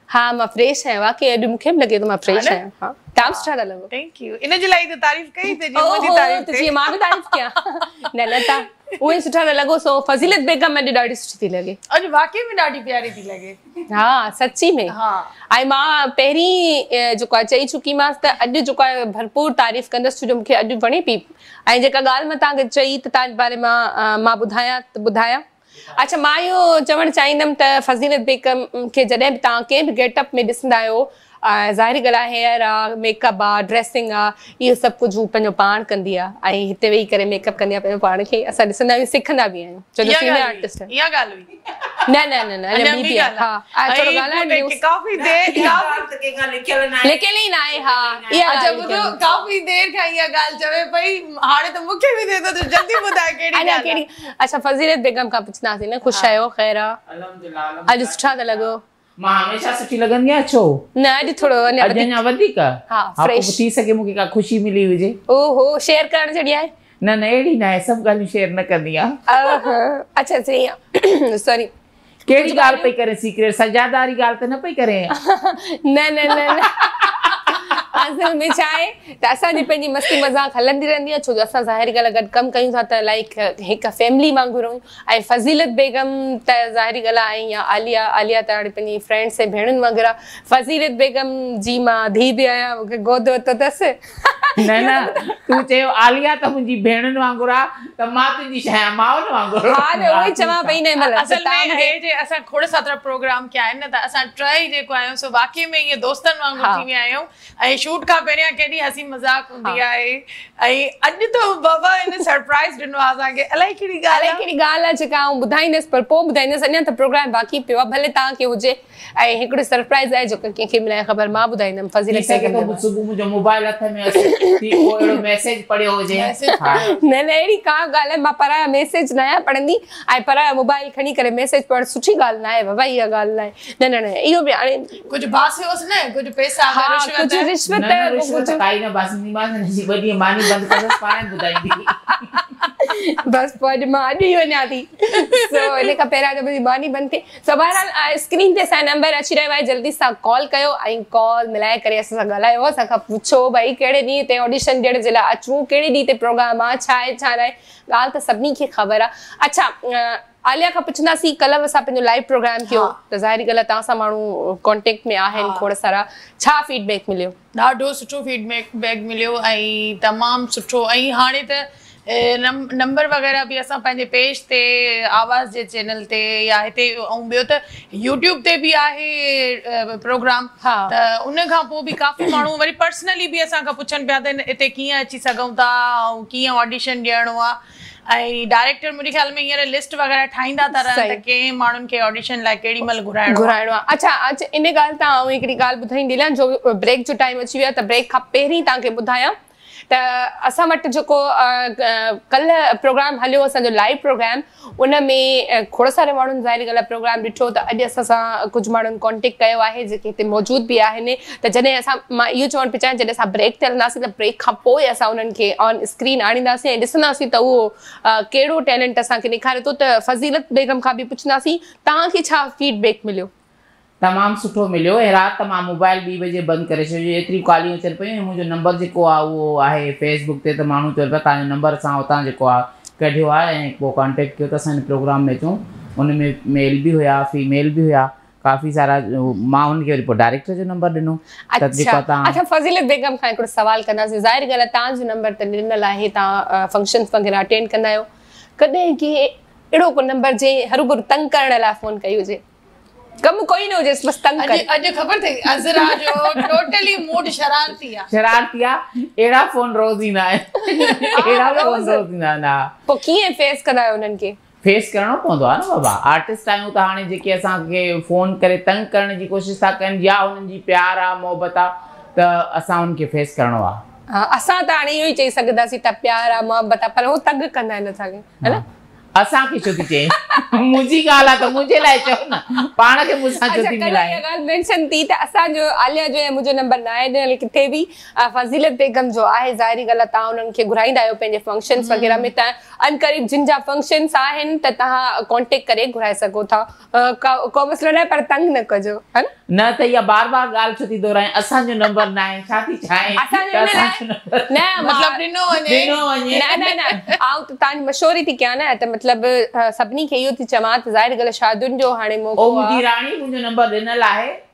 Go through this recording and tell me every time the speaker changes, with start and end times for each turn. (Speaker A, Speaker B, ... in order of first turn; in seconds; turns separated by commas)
Speaker A: 0.1-3.9, Speaker B: 2.3-2.6, Speaker B: 3.2-8.6, Speaker A: 5.7-11.8, Speaker B: 11.9-13.6, Speaker A: 13.9-14.9, Speaker B: 14.9-15.3, Speaker A: 15.5-25.4, Speaker A: 25.9-40.9, Speaker B: 40.0-41.5, Speaker A: 42.1-44.8, Speaker B: 42.7-46.0, Speaker C: 45.1-49.5, Speaker A: 47.0-49.1, Speaker B: 48.5-54.0, Speaker A: 53.5-57.0, Speaker B: 56.0-56.4, Speaker C: 57.1-58.7, Speaker A: 57.9-58.8, Speaker C: 59.2-60.8, Speaker A: 61.0-62.2, Speaker C: 61.8-65.2, Speaker A: 62.9-63.6, Speaker A: 65.3-66.7, Speaker C: 67.0-69.2, Speaker A: 69.3-71.7, Speaker C: 72.3-75.1, Speaker A: 72.3-72.9, Speaker A: 75.2-95.6, Speaker C: 76.5-77.5, Speaker C: 94.6-100.8, Speaker A: 99.7-101.9, Speaker B: 101.0-114.5, Speaker A: 106.6-106.8, Speaker A: 114.1-122.8, Speaker C: 122.1-126.9, Speaker A: 124.2-125.2, Speaker B: 126.1-126.9, Speaker A: 126.7-135.0, Speaker B: 135.1-137.5, Speaker A: 136.7-138.6, Speaker C: 137.7-142.1, Speaker A: 142.8-167.3, Speaker B: 145.2-145.9, Speaker B: 162.7-162.9, Speaker B: 165.3-165.7, Speaker B: 167.5-193.5, Speaker A: 180.6-180.9, Speaker A: 190.8-191.2, Speaker A: 193.3-199.3, Speaker A: 199.9-223.3, Speaker C: 224.0-242.4, Speaker A: 241.5-248.1, Speaker A: 248.6-252.4, Speaker A: 253.2-254.7, Speaker B: 254.4-258.1, Speaker A: 255.8-256.5, Speaker C: 258.1-262.7, Speaker A: 260.7-262.0, Speaker A: 262.9-264.4, Speaker C: 264.6-273.8, Speaker A: 274.1-278.6, Speaker C: 279.1-284.2, Speaker A: 280.2-280.6, Speaker A: 283.5-299.3, Speaker B: 291.8-292.3, Speaker C: 299.5-305.0, Speaker A: 303.2-305.2, Speaker B: 304.8-307.2, Speaker C: 305.6-306.8, Speaker A: 306.3-312.8, Speaker C: 312.4-314.4